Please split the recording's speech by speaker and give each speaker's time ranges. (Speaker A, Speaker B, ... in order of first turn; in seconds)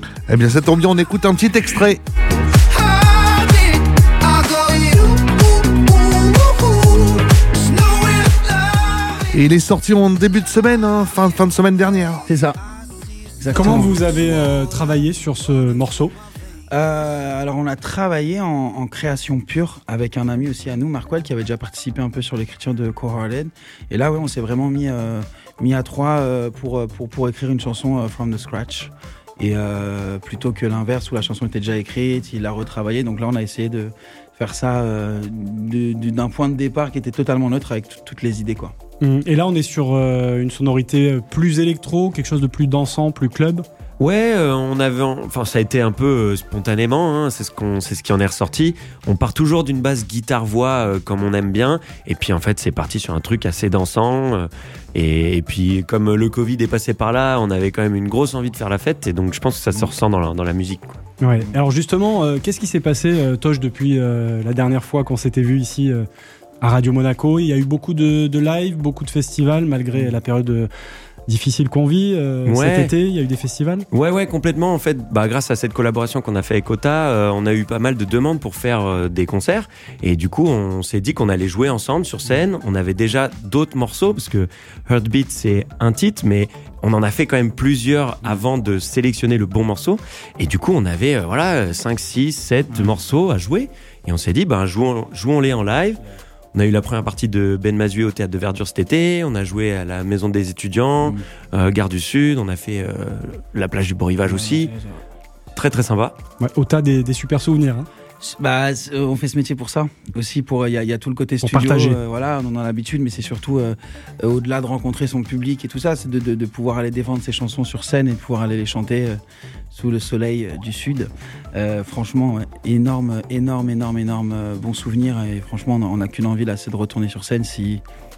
Speaker A: 0.3-2.0, 9.3-12.2
Speaker B: 2.7-9.3, 12.3-12.6, 13.4-13.9, 16.7-38.7, 92.7-93.0, 104.2-105.0, 108.2-119.2, 119.7-127.8
Speaker C: 13.5-16.1, 39.0-43.6, 61.2-66.0, 66.6-70.7, 71.3-73.9, 106.4-107.9, 111.4-112.0
Speaker D: 44.0-61.0, 72.5-72.9, 73.9-96.0, 96.5-104.7, 105.5-106.2